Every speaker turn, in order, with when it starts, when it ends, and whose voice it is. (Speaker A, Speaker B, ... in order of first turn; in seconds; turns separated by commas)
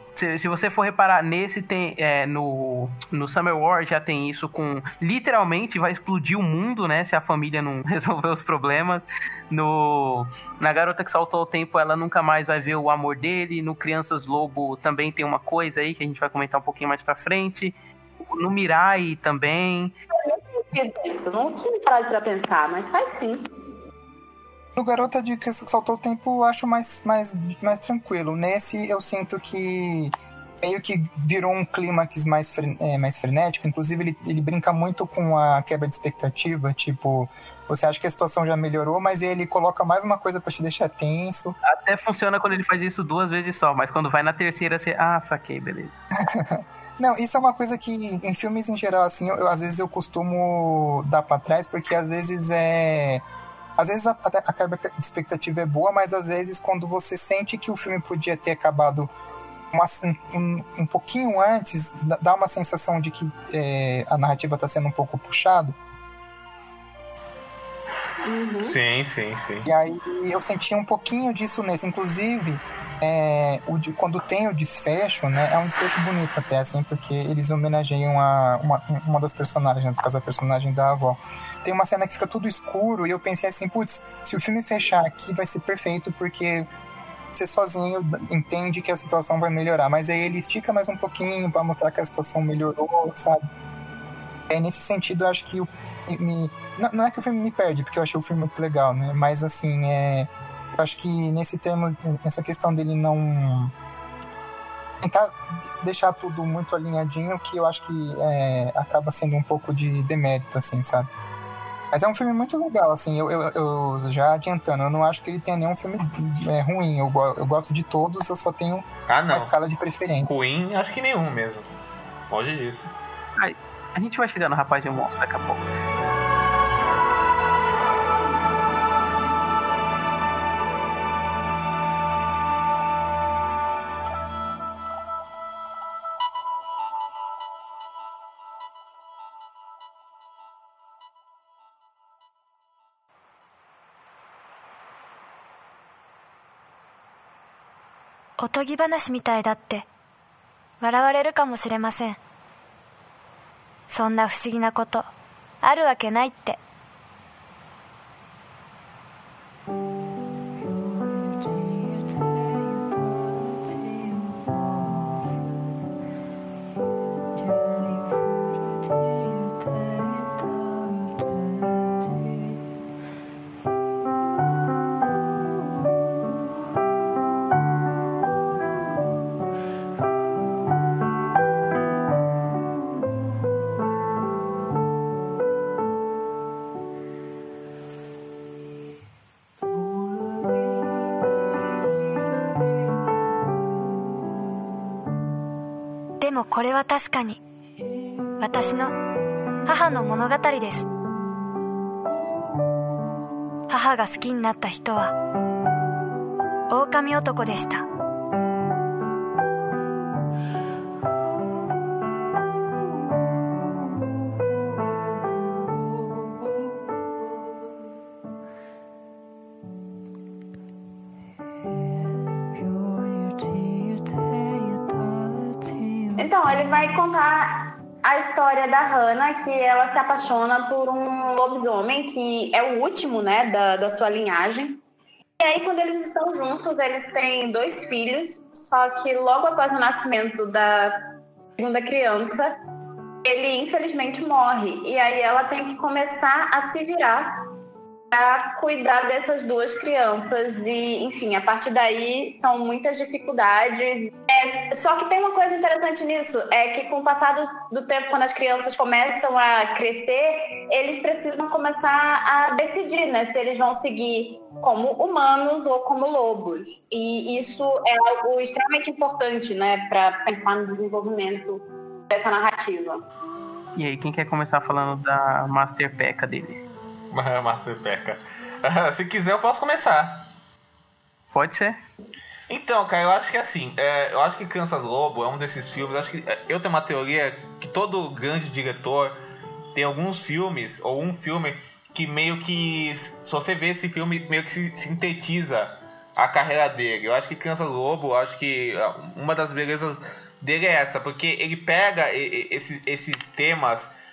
Speaker A: 0.1-17.8, Speaker A: 18.3-19.9, Speaker B: 20.2-23.5, Speaker C: 24.8-41.5, Speaker A: 41.6-46.0, Speaker C: 46.2-53.2, Speaker C: 53.8-59.1, Speaker C: 59.7-65.7, Speaker B: 68.2-68.8, Speaker D: 68.6-69.7, Speaker C: 69.6-86.7, Speaker C: 87.3-93.4, Speaker C: 94.5-103.7, Speaker C: 105.0-111.1, Speaker C: 111.9-120.3, Speaker D: 119.1-119.5, Speaker D: 120.2-121.7, Speaker D: 122.3-122.9, Speaker A: 123.4-125.7, Speaker E: 148.4-149.8, Speaker E: 150.8-152.2, Speaker E: 153.9-155.1, Speaker E: 155.6-156.6, Speaker E: 196.2-197.4, Speaker E: 198.4-199.0, Speaker E: 199.7-200.9, Speaker E: 203.7-205.1, Speaker E: 206.7-207.8, Speaker B: 226.1-234.8, Speaker B: 235.4-242.5, Speaker B: 243.2-247.4, Speaker B: 248.1-273.0, Speaker A: 273.8-276.6, Speaker D: 277.1-280.3, Speaker A: 281.3-281.8, Speaker D: 282.5-289.1, Speaker D: 289.7-303.9